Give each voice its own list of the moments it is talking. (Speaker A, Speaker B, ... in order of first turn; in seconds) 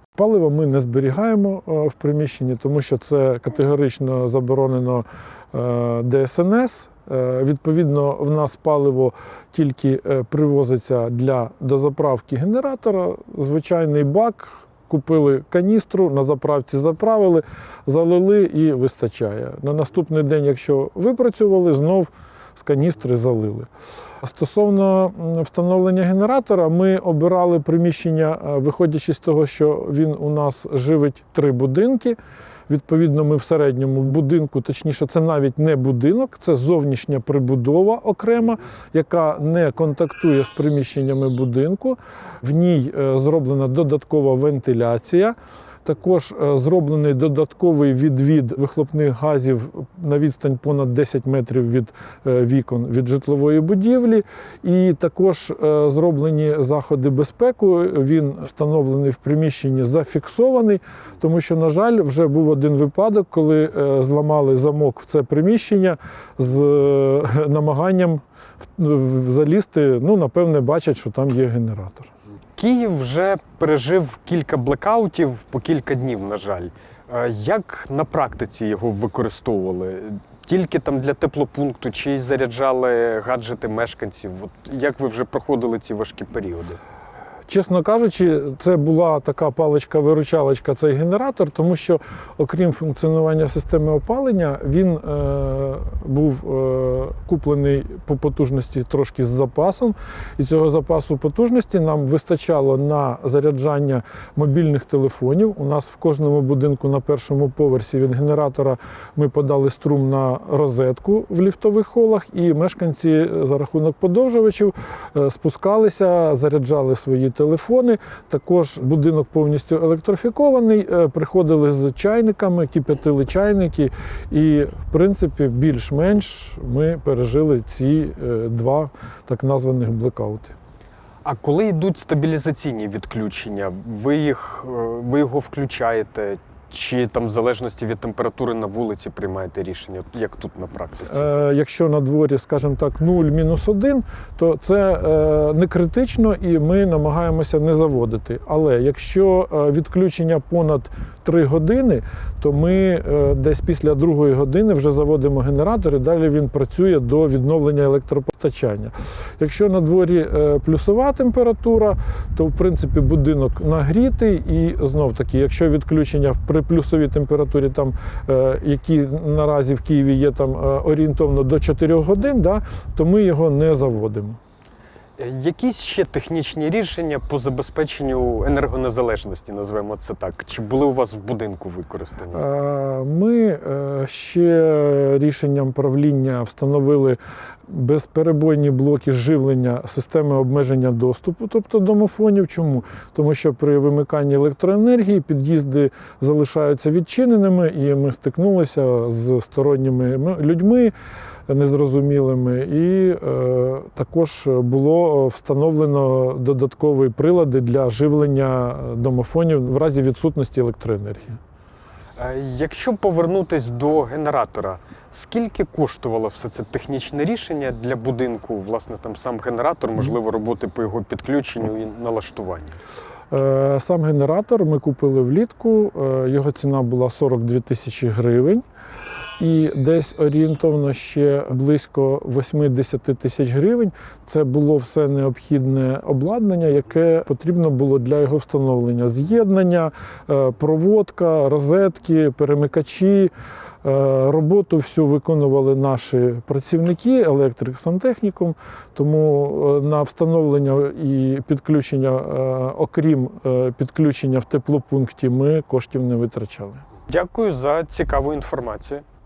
Speaker A: 0.1-23.7, 24.2-32.2, 32.7-72.1, 87.5-130.5, 141.1-174.4, 182.3-200.9, 201.5-211.4, 223.3-228.6, 229.4-243.3, 243.8-256.8
Speaker B: 72.6-86.8, 131.2-141.2, 175.2-182.4, 212.2-222.8, 257.1-259.0